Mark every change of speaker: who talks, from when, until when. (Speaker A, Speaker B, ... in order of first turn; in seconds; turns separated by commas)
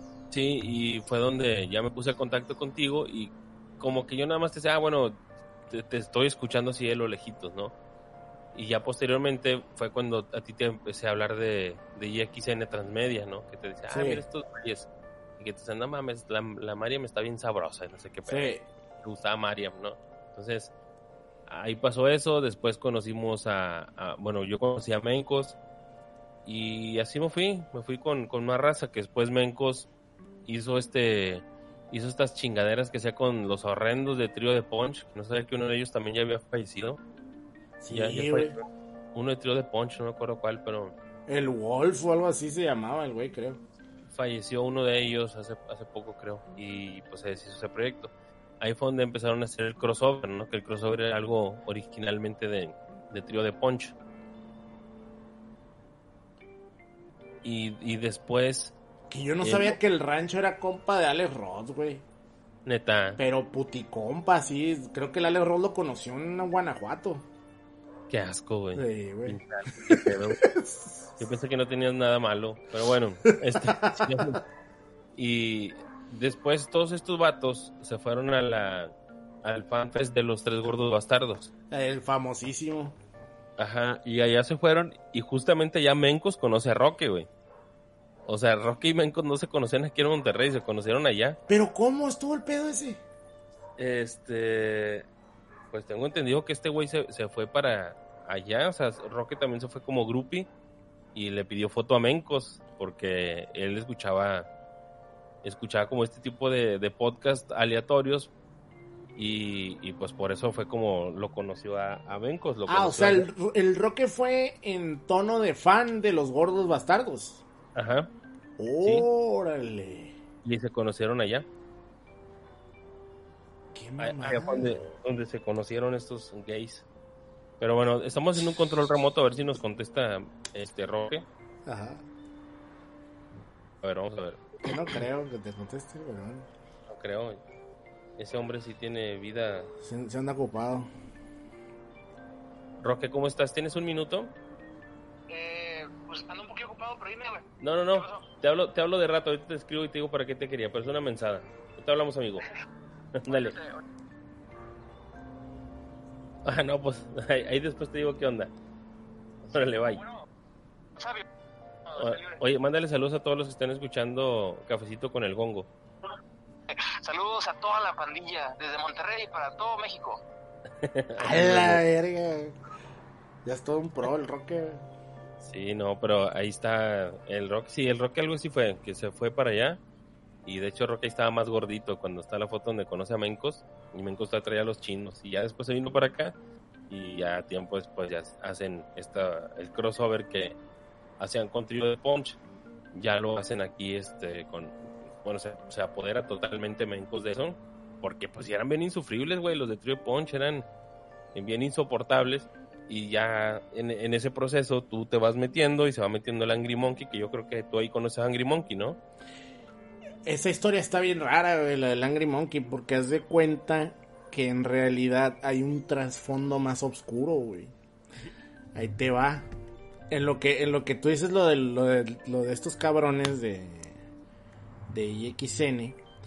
Speaker A: 0.3-7.7, Speaker A: 8.5-20.7, Speaker B: 13.9-14.2, Speaker B: 18.3-18.7, Speaker A: 21.5-25.6, Speaker A: 26.5-29.9, Speaker A: 30.5-37.0, Speaker B: 37.8-38.5, Speaker A: 37.9-40.9, Speaker B: 41.3-43.6, Speaker A: 44.1-54.0, Speaker A: 57.4-58.8, Speaker B: 59.1-62.0, Speaker A: 59.4-59.8, Speaker A: 62.7-63.2, Speaker B: 63.2-67.2, Speaker A: 68.1-70.4, Speaker B: 68.8-71.1, Speaker A: 71.2-74.4, Speaker B: 73.3-74.3, Speaker A: 75.2-78.9, Speaker A: 79.4-81.5, Speaker B: 81.7-83.0, Speaker A: 83.6-87.3, Speaker A: 88.3-91.4, Speaker B: 91.5-93.0, Speaker A: 93.8-95.1, Speaker A: 95.7-100.5, Speaker A: 101.2-104.5, Speaker A: 105.4-108.3, Speaker A: 109.2-113.3, Speaker B: 112.7-117.4, Speaker A: 117.8-118.1, Speaker B: 118.6-120.2, Speaker A: 120.4-121.5, Speaker B: 123.7-124.8, Speaker A: 124.0-126.9, Speaker A: 127.6-131.3, Speaker B: 131.7-132.1, Speaker A: 133.8-134.6, Speaker B: 134.6-136.5, Speaker A: 136.9-137.4, Speaker A: 138.2-139.7, Speaker B: 139.8-140.9, Speaker A: 142.8-144.3, Speaker C: 145.3-147.4, Speaker A: 147.6-152.4, Speaker A: 153.2-153.6, Speaker C: 153.2-153.8, Speaker A: 156.4-158.5, Speaker A: 159.5-160.0, Speaker C: 161.0-161.2, Speaker C: 161.9-162.4, Speaker A: 161.9-165.7, Speaker C: 166.7-170.2, Speaker A: 170.8-171.8, Speaker B: 171.2-172.6, Speaker B: 173.4-174.8, Speaker A: 175.4-179.8, Speaker A: 180.5-186.3, Speaker A: 186.9-190.6, Speaker A: 191.2-192.4, Speaker A: 192.9-200.7, Speaker A: 201.3-209.0, Speaker B: 210.3-217.7, Speaker B: 218.8-219.4, Speaker B: 220.1-224.0, Speaker B: 224.9-226.0